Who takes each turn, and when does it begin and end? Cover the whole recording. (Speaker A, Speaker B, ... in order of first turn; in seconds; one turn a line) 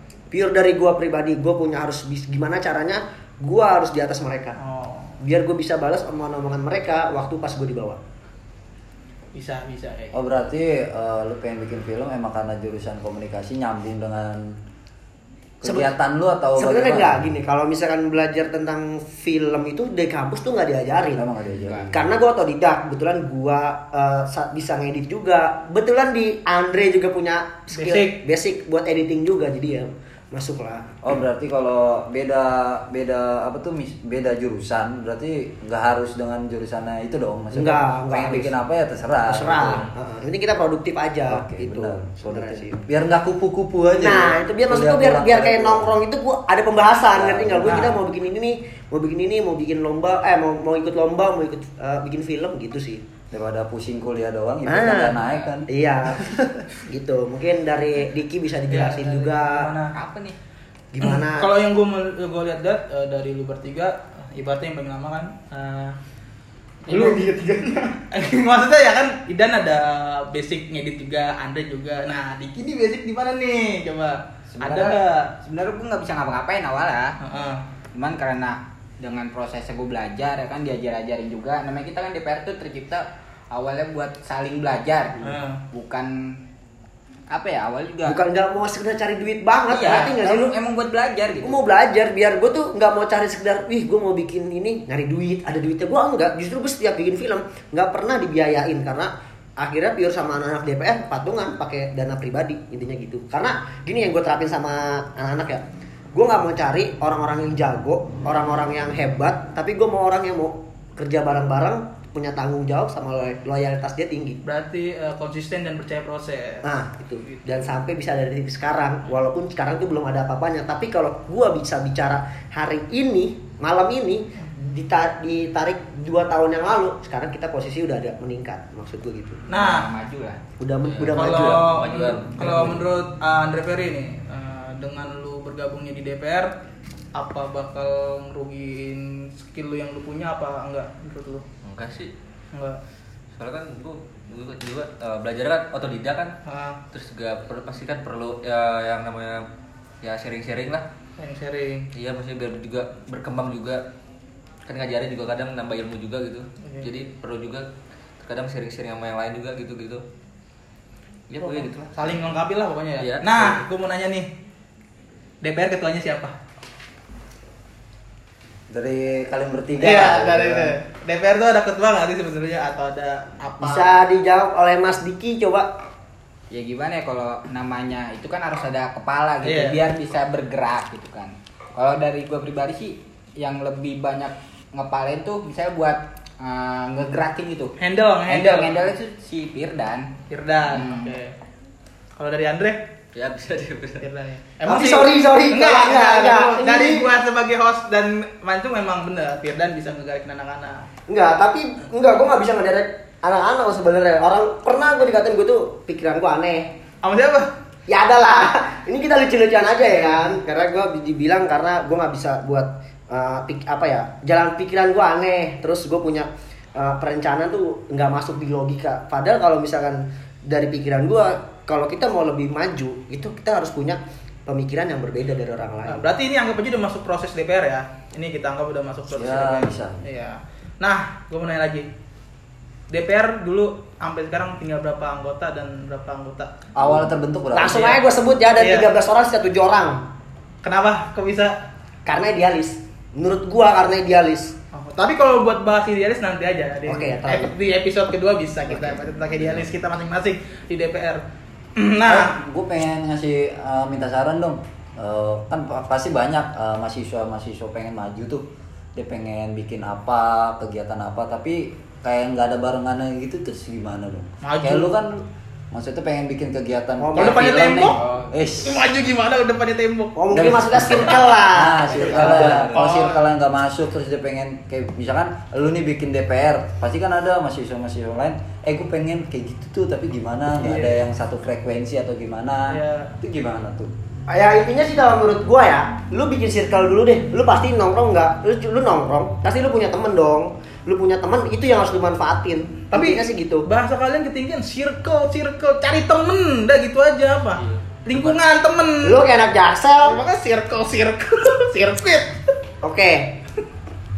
Speaker A: 0.3-4.5
Speaker B: 4.6-5.2
Speaker A: 5.2-8.0
Speaker B: 9.3-10.2
Speaker C: 10.1-14.5
Speaker C: 15.6-17.2
Speaker A: 15.6-15.9
Speaker A: 16.6-21.2
Speaker C: 21.1-22.0
Speaker D: 21.6-21.9
Speaker A: 21.9-30.9
Speaker B: 27.7-28.2
Speaker C: 31.0-39.9
Speaker A: 37.5-38.5
Speaker A: 39.3-42.8
Speaker C: 41.3-45.9
Speaker A: 44.0-53.0
Speaker C: 47.1-47.9
Speaker B: 47.6-48.0
Speaker C: 53.3-55.7
Speaker A: 54.6-59.7
Speaker B: 58.7-59.9
Speaker D: 59.9-60.4
Speaker A: 60.9-61.5
Speaker B: 61.0-66.0
Speaker B: 66.9-75.3
Speaker D: 66.9-67.2
Speaker D: 74.6-77.1
Speaker B: 77.2-77.6
Speaker D: 77.9-86.3
Speaker B: 85.2-85.6
Speaker D: 87.3-88.2
Speaker A: 88.0-90.5
Speaker D: 89.7-91.6
Speaker A: 91.4-105.6
Speaker A: 106.1-114.4
Speaker B: 114.4-116.6
Speaker A: 116.6-129.4
Speaker D: 129.5-130.4
Speaker B: 129.5-129.9
Speaker A: 130.6-131.7
Speaker E: 130.8-132.8
Speaker B: 131.1-136.5
Speaker B: 137.1-141.4
Speaker E: 141.6-142.1
Speaker B: 142.5-142.8
Speaker E: 143.3-146.3
Speaker B: 146.4-146.8
Speaker E: 146.9-149.4
Speaker E: 150.0-150.8
Speaker B: 151.2-151.9
Speaker E: 151.9-153.8
Speaker E: 154.7-157.7
Speaker E: 158.2-160.0
Speaker E: 161.3-162.2
Speaker B: 161.4-164.3
Speaker E: 163.0-163.6
Speaker B: 165.4-166.3
Speaker C: 168.7-170.8
Speaker B: 169.8-174.0
Speaker A: 173.6-175.7
Speaker D: 176.5-190.1
Speaker B: 179.4-179.8
Speaker B: 187.8-188.8
Speaker B: 190.3-191.3
Speaker D: 190.7-191.2
Speaker B: 192.2-192.8
Speaker E: 193.1-194.1
Speaker B: 194.0-200.9
Speaker A: 194.7-197.1
Speaker A: 201.1-206.7
Speaker B: 207.0-207.5
Speaker A: 207.9-226.1
Speaker B: 209.9-210.4
Speaker B: 225.8-231.9
Speaker C: 229.1-230.0
Speaker B: 232.9-236.5
Speaker C: 236.7-238.0
Speaker A: 237.5-240.0
Speaker B: 238.6-238.9
Speaker B: 240.6-241.6
Speaker A: 242.1-244.6
Speaker B: 244.7-251.2
Speaker A: 246.9-247.5
Speaker B: 251.8-252.3
Speaker C: 252.1-268.9
Speaker B: 264.4-264.9
Speaker A: 267.0-267.4
Speaker B: 267.1-268.0
Speaker D: 267.9-268.3
Speaker B: 268.6-270.1
Speaker A: 270.1-272.7
Speaker C: 270.3-283.9
Speaker E: 272.1-272.9
Speaker B: 272.7-273.2
Speaker B: 280.6-281.0
Speaker B: 282.7-283.1
Speaker A: 284.3-293.7
Speaker B: 292.9-299.2
Speaker E: 297.6-297.8
Speaker A: 299.0-300.2
Speaker B: 300.0-302.4
Speaker A: 302.8-303.4